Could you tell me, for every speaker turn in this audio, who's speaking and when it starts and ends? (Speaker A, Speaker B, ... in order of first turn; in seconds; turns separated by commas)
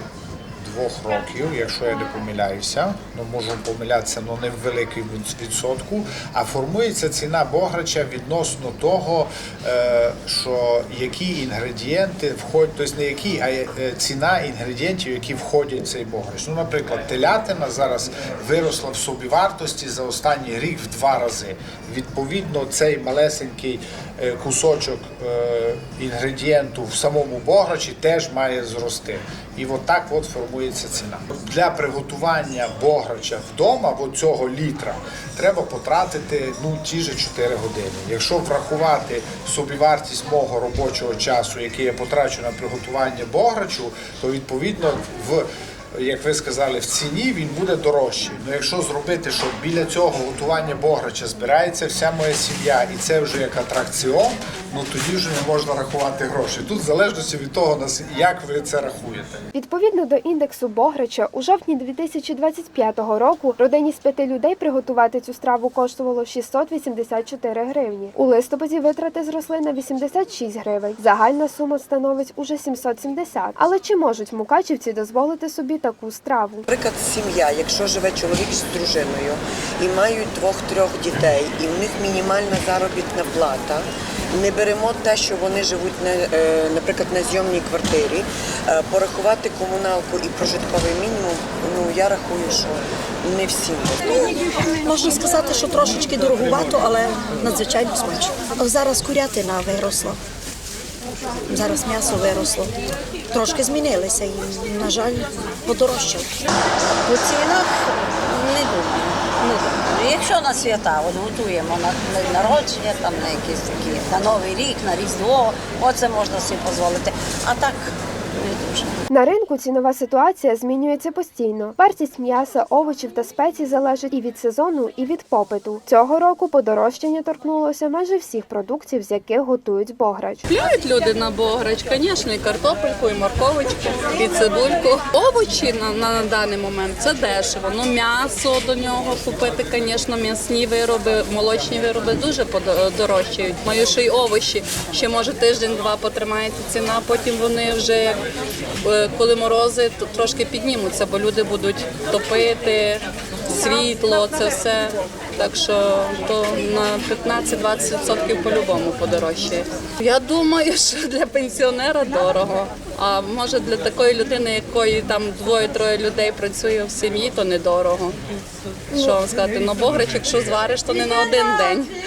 Speaker A: 0.6-59.4, Speaker B: 59.5-76.7, Speaker C: 76.7-94.2, Speaker D: 94.8-100.2, Speaker D: 101.5-102.7, Speaker D: 103.3-106.3, Speaker E: 107.0-118.9, Speaker B: 119.1-130.4, Speaker F: 130.5-148.2, Speaker F: 148.8-168.2, Speaker F: 168.9-171.9